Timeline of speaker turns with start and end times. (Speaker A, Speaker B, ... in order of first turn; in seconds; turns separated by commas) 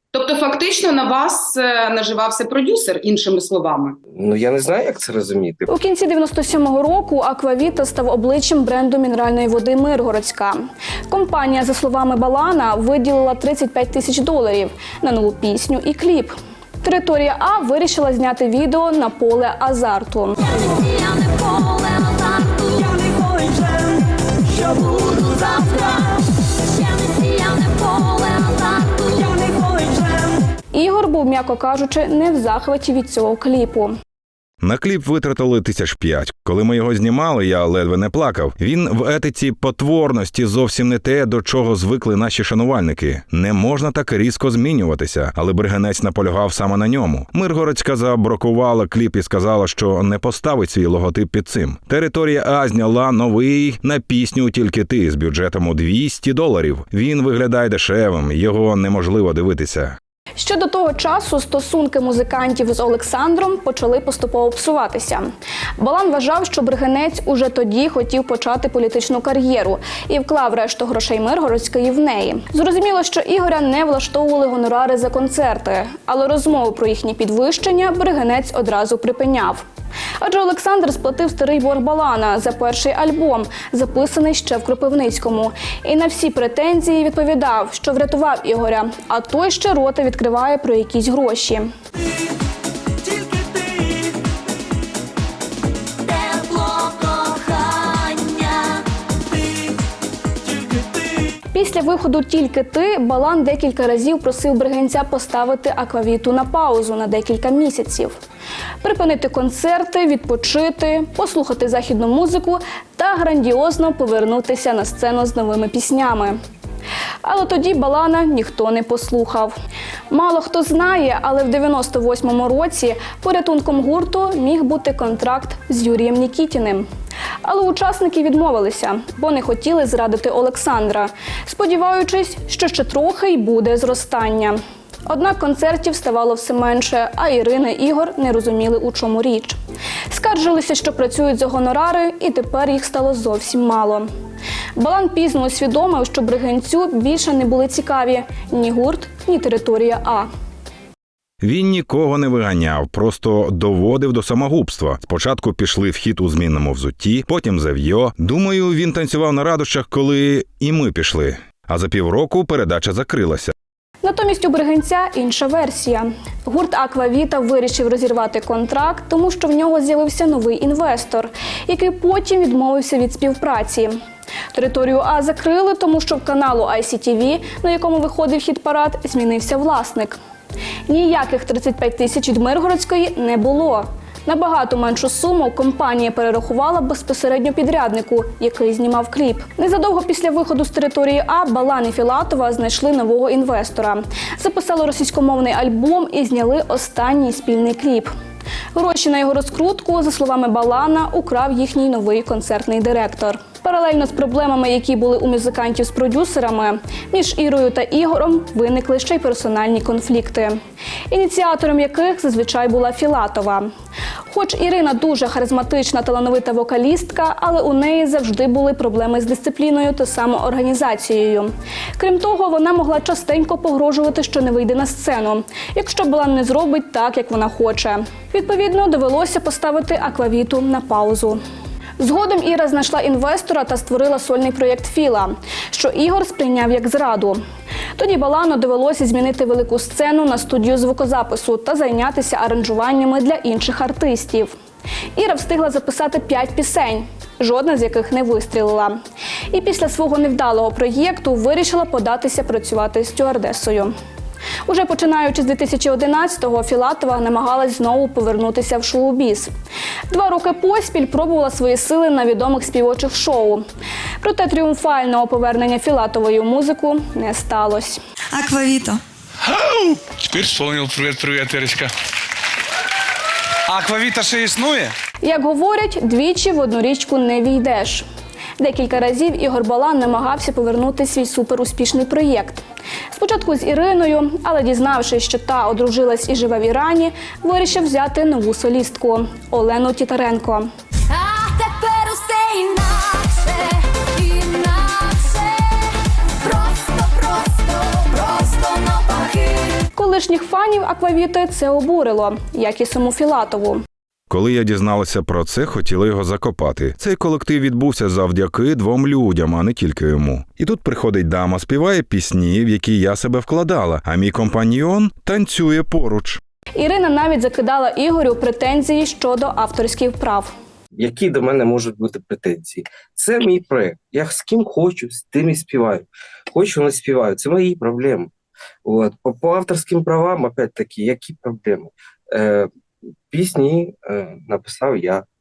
Speaker A: 0.1-4.0, Speaker B: 4.1-5.7, Speaker C: 5.7-20.4, Speaker D: 20.5-30.1, Speaker C: 30.7-33.9, Speaker E: 34.6-60.0, Speaker C: 60.4-65.3, Speaker C: 65.8-79.6, Speaker C: 80.2-91.7, Speaker D: 96.1-98.8, Speaker C: 101.5-108.1, Speaker C: 108.8-116.4, Speaker C: 117.2-119.5, Speaker C: 120.1-126.8, Speaker C: 127.4-139.6, Speaker C: 140.1-144.1, Speaker C: 144.8-150.3, Speaker E: 151.4-163.5, Speaker C: 164.0-173.9, Speaker C: 174.5-180.2, Speaker C: 180.9-198.1, Speaker C: 198.7-210.6, Speaker C: 211.1-213.7, Speaker C: 214.3-231.4, Speaker C: 232.0-237.4, Speaker C: 237.9-244.5, Speaker C: 245.2-249.0, Speaker C: 249.5-253.9, Speaker C: 254.7-259.5, Speaker C: 260.1-263.6, Speaker C: 264.2-268.0, Speaker F: 270.2-271.9, Speaker F: 273.7-274.9, Speaker C: 275.2-278.0, Speaker C: 278.6-290.7, Speaker D: 291.1-295.9, Speaker D: 296.4-299.8, Speaker C: 299.9-303.8, Speaker E: 304.3-316.4, Speaker C: 316.8-320.5, Speaker B: 320.9-328.3, Speaker B: 328.8-332.7, Speaker B: 333.3-335.2